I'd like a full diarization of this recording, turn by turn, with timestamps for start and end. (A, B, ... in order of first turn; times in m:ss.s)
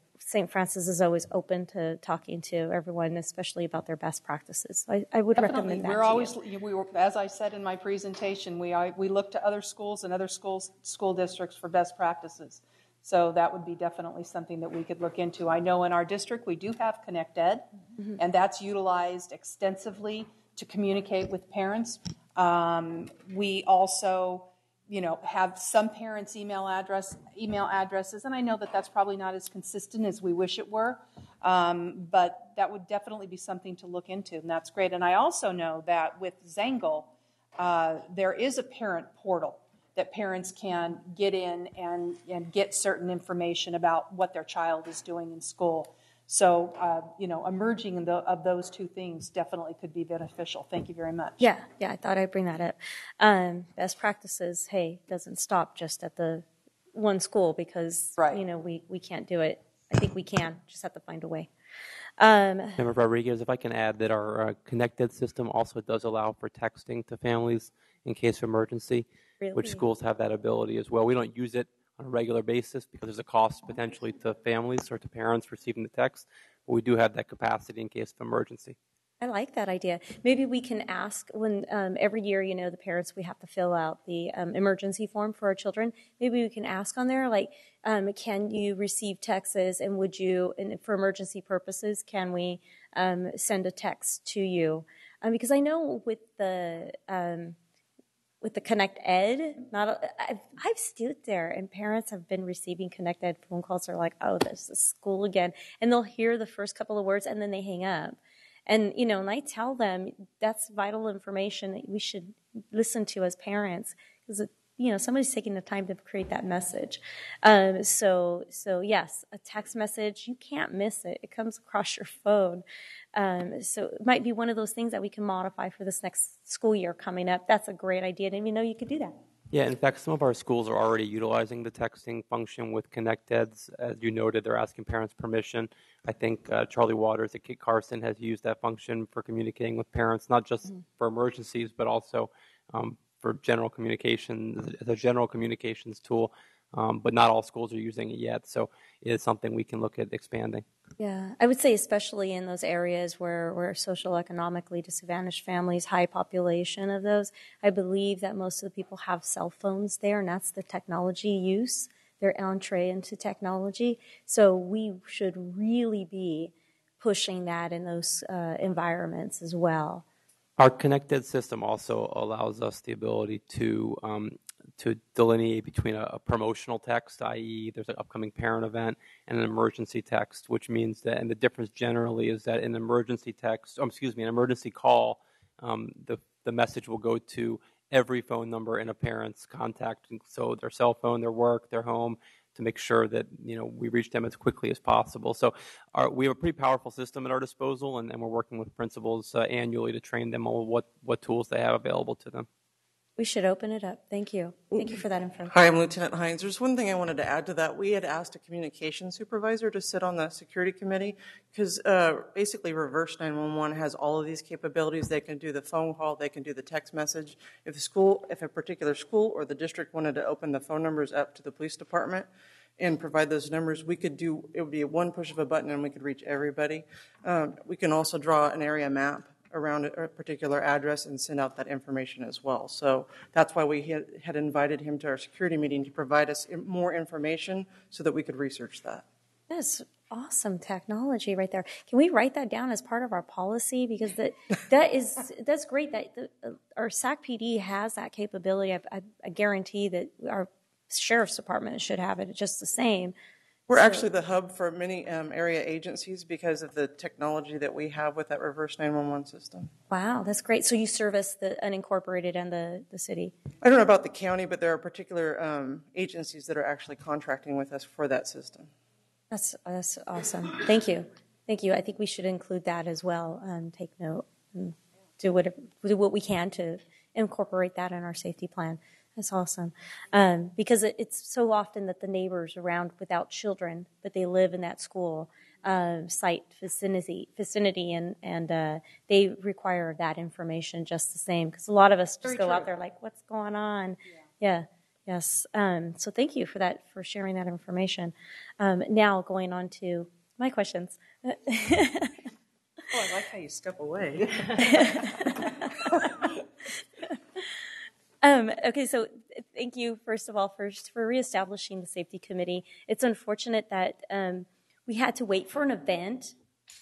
0:00.2-0:06.4 A
0:05.4-0:17.6 B
0:18.2-0:51.5 B
0:51.4-1:01.5 A
1:02.2-1:02.8 A
1:02.8-1:18.8 C
1:09.4-1:09.8 A
1:19.2-1:37.6 A
1:38.4-2:09.2 A
2:09.5-2:30.6 C
2:31.0-2:50.0 A
2:50.6-3:22.5 C
3:23.2-3:25.5 A
3:25.5-3:59.0 D
3:59.5-4:13.2 A
4:13.7-4:19.7 D
4:13.7-4:14.1 A
4:19.9-4:23.4 A
4:23.6-4:28.7 D
4:29.3-5:02.2 A
4:52.2-4:52.7 B
5:02.9-5:03.8 B
5:03.8-5:04.1 D
5:04.6-5:06.2 A
5:08.2-5:16.4 A